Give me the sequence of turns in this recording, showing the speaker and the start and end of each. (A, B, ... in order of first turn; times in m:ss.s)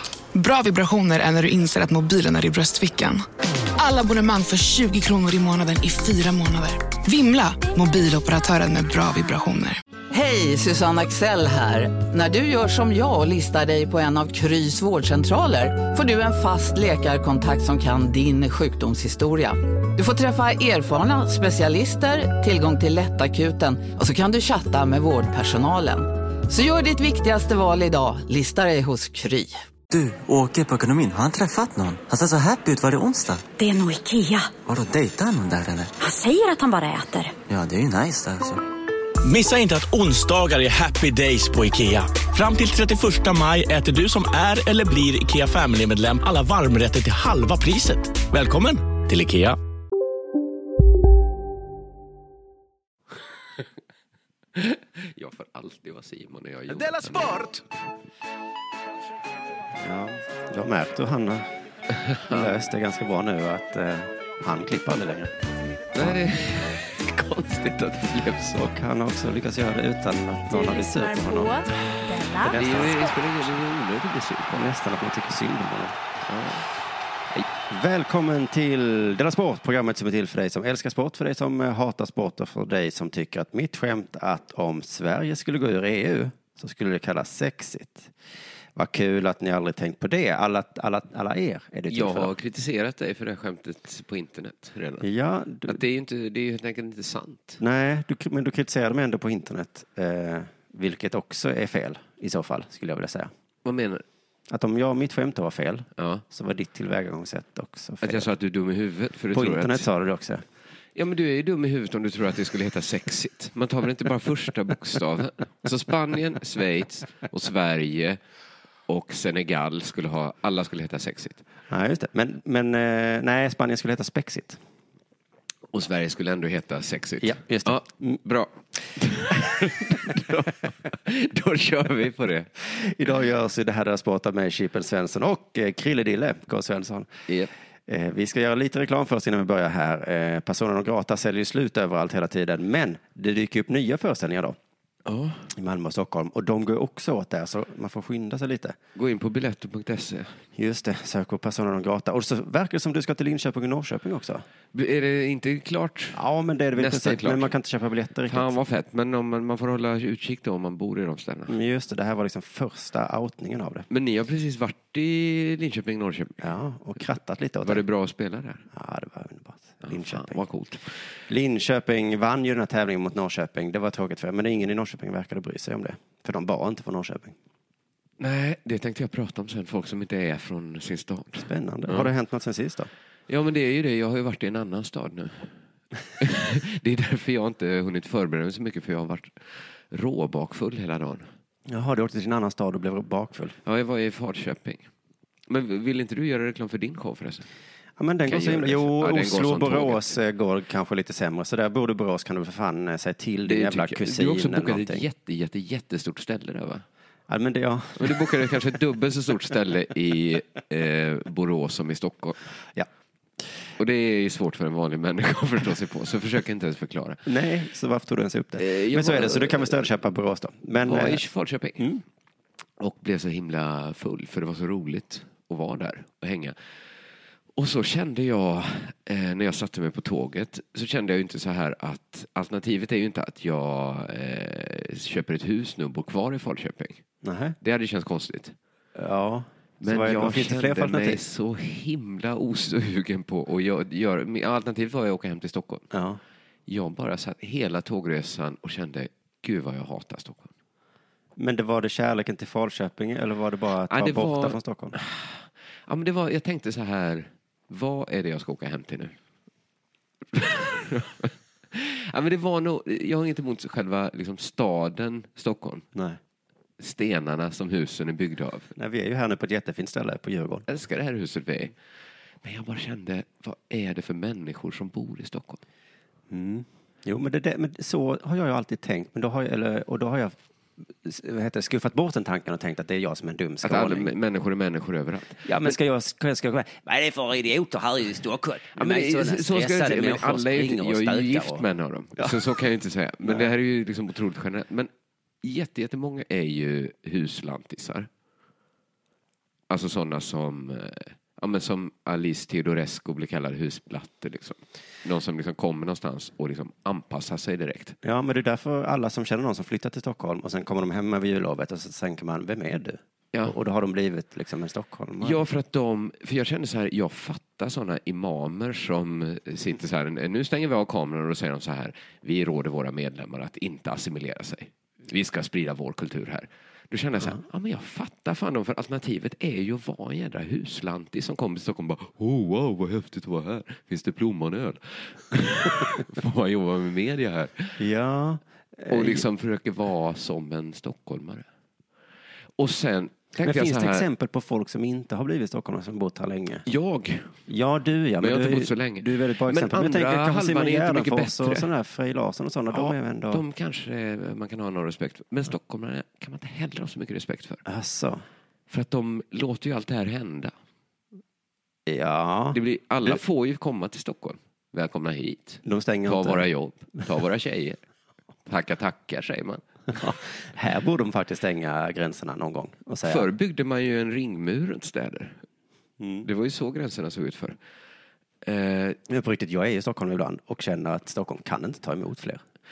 0:00.3-0:03.2 A
0:03.8-0:09.8 A
0:10.1-0:29.5 B
0:29.9-0:33.5 C
0:33.6-0:34.6 D
0:34.6-0:35.9 C
0:36.0-0:37.4 D
0:37.5-0:38.6 C
0:39.2-0:49.6 E
0:54.6-0:57.6 F
0:59.8-1:01.6 G
1:01.9-1:02.5 F
1:02.3-1:05.3 G
1:06.0-1:08.6 F
1:08.5-1:11.7 G
1:12.4-1:13.1 G
1:12.4-1:14.7 F
1:14.5-1:16.0 G
1:16.3-1:16.7 F
1:17.7-1:28.1 G
1:28.8-1:32.3 G
1:31.9-1:35.1 F
1:35.0-1:35.8 G
1:35.7-1:37.6 F
1:37.6-1:43.3 G
1:43.6-1:44.0 F
1:44.5-1:48.3 G
1:46.0-1:46.2 F
1:48.0-1:49.9 F
1:49.3-1:50.4 G
1:51.0-1:58.2 F
1:58.9-2:01.4 F
2:01.7-2:04.6 G
2:05.7-2:12.5 F
2:07.2-2:08.2 G
2:12.6-2:17.1 G
2:17.9-2:24.6 G
2:25.1-2:25.5 F
2:25.5-2:28.8 G
2:29.0-2:30.4 F
2:30.6-2:34.4 G
2:34.7-2:36.2 F
2:36.1-2:38.6 G
2:36.8-2:37.6 F
2:38.3-2:41.6 F
2:41.5-2:43.9 G
2:43.9-2:46.4 F
2:46.4-2:47.8 G
2:47.6-2:48.6 F
2:48.7-2:50.4 G
2:49.8-2:50.9 F
2:51.3-2:57.4 G
2:58.2-3:02.1 F
3:01.4-3:02.9 G
3:03.3-3:05.5 F
3:06.2-3:11.3 F
3:11.7-3:13.6 G
3:13.6-3:14.9 F
3:15.5-3:17.4 F
3:18.0-3:25.0 G
3:18.3-3:20.2 F
3:23.5-3:26.8 F
3:27.3-3:28.6 G
3:28.0-3:32.5 F
3:33.8-3:37.2 F
3:37.3-3:41.2 G
3:38.6-3:39.8 F
3:40.8-3:41.9 F
3:42.8-3:46.6 F
3:47.6-3:57.0 F
3:57.2-3:57.6 G
3:57.6-3:58.6 F
3:59.0-4:01.2 G
3:59.8-4:05.9 F
4:05.9-4:06.2 G
4:06.7-4:10.5 F
4:11.4-4:15.0 G
4:13.9-4:19.2 F
4:20.3-4:25.8 F
4:25.9-4:26.2 G
4:26.8-4:28.7 F
4:28.8-4:30.7 G
4:30.7-4:31.8 F
4:32.4-4:35.6 F
4:36.3-4:40.4 G
4:40.9-4:44.2 G
4:43.6-4:45.7 F
4:45.4-4:46.8 G
4:46.8-4:51.6 H
4:48.7-4:54.9 F
4:53.2-4:53.5 G
4:55.4-4:58.1 F
4:59.7-5:08.0 F
5:08.0-5:15.4 G
5:15.2-5:37.8 F
5:37.8-5:39.2 G
5:38.9-5:41.5 F
5:42.6-5:44.1 F
5:43.4-5:46.7 G
5:46.6-5:47.4 F
5:47.5-5:53.4 G
5:48.2-5:51.7 F
5:52.7-5:57.6 F
5:57.6-5:58.2 G
5:58.7-6:00.5 F
6:01.9-6:03.2 G
6:02.5-6:07.8 F
6:05.6-6:06.5 G
6:08.5-6:09.6 F
6:09.9-6:13.3 G
6:13.0-6:15.4 F
6:16.0-6:16.3 G
6:16.2-6:17.6 F
6:18.4-6:19.0 F
6:19.1-6:22.4 G